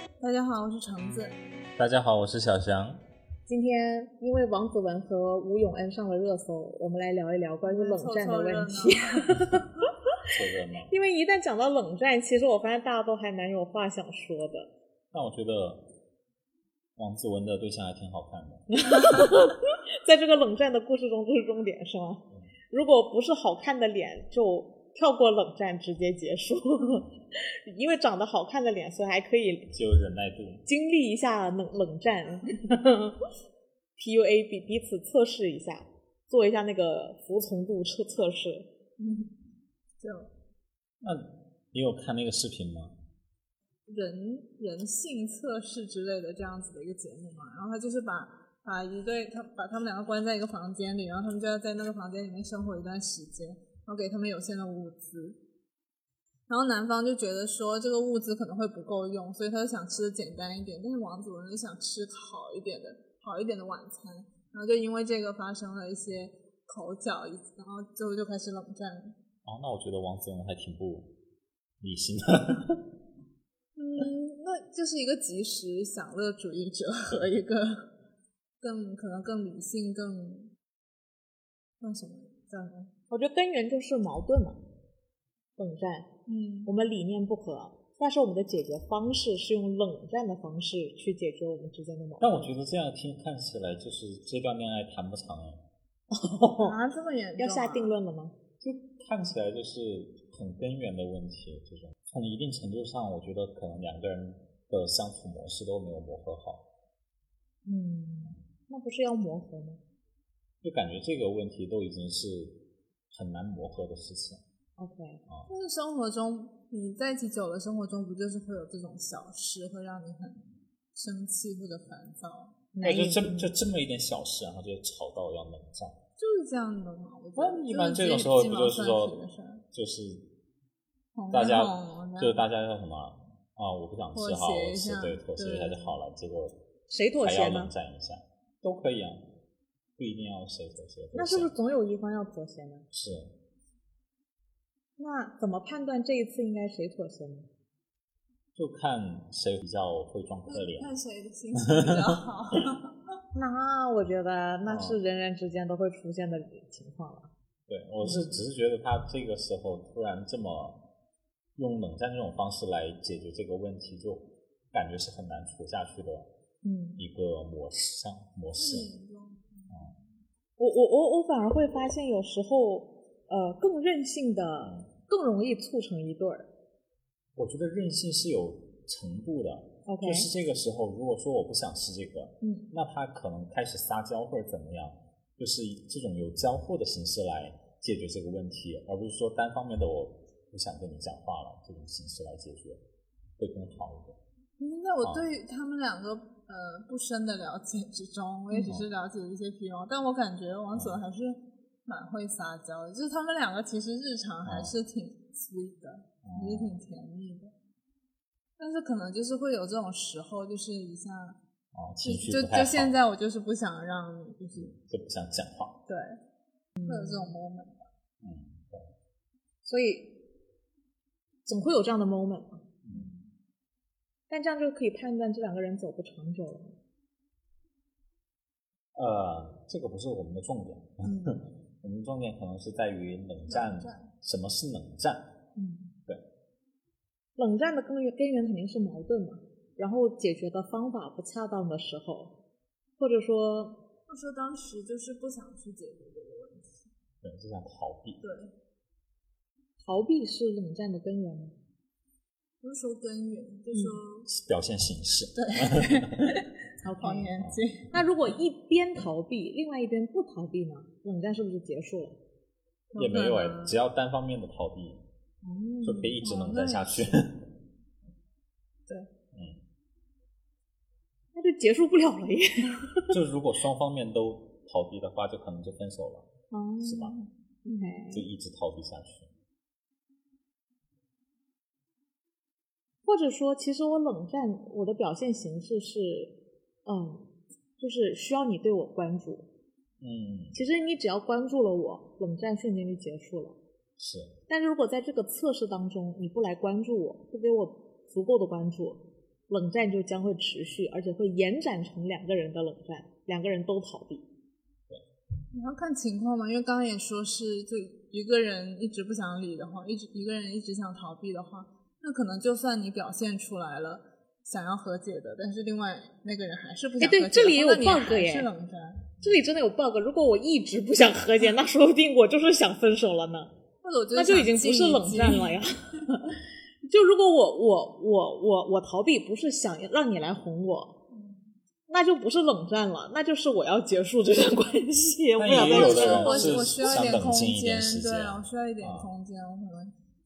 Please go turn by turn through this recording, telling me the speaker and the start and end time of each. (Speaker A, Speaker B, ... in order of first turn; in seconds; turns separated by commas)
Speaker A: 0.2-1.4, Speaker B: 1.8-3.0, Speaker C: 3.5-9.7, Speaker A: 7.6-9.4, Speaker B: 10.3-10.9, Speaker C: 10.9-14.7, Speaker B: 15.1-15.8, Speaker B: 17.0-18.7, Speaker C: 18.7-29.7, Speaker B: 29.7-30.6, Speaker C: 30.6-33.2, Speaker C: 34.0-38.7, Speaker A: 39.0-39.4, Speaker A: 40.0-40.3, Speaker B: 41.0-42.9, Speaker A: 43.9-55.4, Speaker A: 56.5-69.2, Speaker B: 69.5-71.1, Speaker B: 71.8-72.8, Speaker A: 73.8-77.9, Speaker A: 78.6-80.5, Speaker A: 81.8-82.9, Speaker C: 83.1-84.6, Speaker C: 85.6-86.1, Speaker A: 86.3-86.7, Speaker C: 86.7-92.3, Speaker B: 92.2-95.6, Speaker C: 96.1-96.8, Speaker A: 96.6-97.9, Speaker C: 97.4-98.3, Speaker B: 98.6-106.7, Speaker C: 107.7-109.8, Speaker B: 110.6-112.6, Speaker B: 113.1-114.4, Speaker C: 114.8-115.2, Speaker A: 115.5-122.6, Speaker C: 122.7-123.5, Speaker B: 122.8-126.0, Speaker A: 126.2-129.6, Speaker B: 127.4-129.2, Speaker B: 129.7-130.2, Speaker A: 131.2-132.4, Speaker B: 131.3-136.6, Speaker A: 134.1-136.0, Speaker C: 136.9-137.7, Speaker B: 137.2-139.2, Speaker B: 140.0-141.5, Speaker C: 141.1-142.9, Speaker B: 142.9-143.3, Speaker C: 145.0-147.5, Speaker B: 148.6-150.9, Speaker A: 150.5-152.9, Speaker B: 151.7-152.1, Speaker C: 153.3-157.3, Speaker B: 154.7-155.0, Speaker B: 157.7-160.8, Speaker C: 158.0-158.4, Speaker B: 161.6-166.3, Speaker C: 166.6-167.0, Speaker B: 167.0-168.9, Speaker A: 168.6-169.8, Speaker C: 170.6-176.5, Speaker B: 174.6-174.9, Speaker B: 177.4-192.8, Speaker C: 179.9-180.3, Speaker C: 182.4-182.7, Speaker B: 193.4-194.2, Speaker A: 194.6-207.5, Speaker B: 204.4-204.7, Speaker B: 206.2-206.8, Speaker A: 208.6-211.4, Speaker B: 211.7-213.0, Speaker A: 212.0-214.7, Speaker B: 214.5-215.8, Speaker A: 215.9-216.2, Speaker C: 216.8-217.4, Speaker A: 216.9-217.9, Speaker B: 218.2-218.9, Speaker C: 219.7-220.1, Speaker C: 221.5-222.6, Speaker B: 222.8-223.1, Speaker A: 222.9-223.3, Speaker C: 224.3-226.8, Speaker B: 228.9-235.2, Speaker C: 231.0-231.4, Speaker A: 233.5-234.1, Speaker C: 235.6-235.9, Speaker C: 237.4-242.3, Speaker C: 243.0-243.8, Speaker A: 244.1-246.9, Speaker B: 247.2-248.2, Speaker A: 248.2-248.5, Speaker C: 249.8-251.6, Speaker A: 252.6-254.3, Speaker C: 253.7-254.0, Speaker B: 254.3-256.3, Speaker A: 255.4-256.5, Speaker C: 256.8-257.3, Speaker A: 257.0-257.9, Speaker C: 257.9-262.2, Speaker A: 262.9-263.8, Speaker B: 263.0-265.0, Speaker C: 265.4-266.2, Speaker B: 265.8-267.4, Speaker A: 266.2-267.3, Speaker B: 269.3-269.6, Speaker C: 271.4-273.1, Speaker B: 273.1-276.3, Speaker C: 276.5-278.2, Speaker B: 276.8-277.1, Speaker A: 277.8-278.0, Speaker B: 278.1-279.3, Speaker C: 283.1-286.3, Speaker C: 286.9-289.5, Speaker B: 290.0-290.6, Speaker C: 290.5-293.6, Speaker B: 294.0-294.3, Speaker C: 294.5-304.3, Speaker A: 305.5-319.1, Speaker C: 317.0-318.5, Speaker C: 319.2-323.5, Speaker A: 323.8-325.6, Speaker C: 324.1-330.9, Speaker A: 331.1-331.6, Speaker C: 331.9-337.0, Speaker B: 335.4-339.1, Speaker A: 335.6-339.9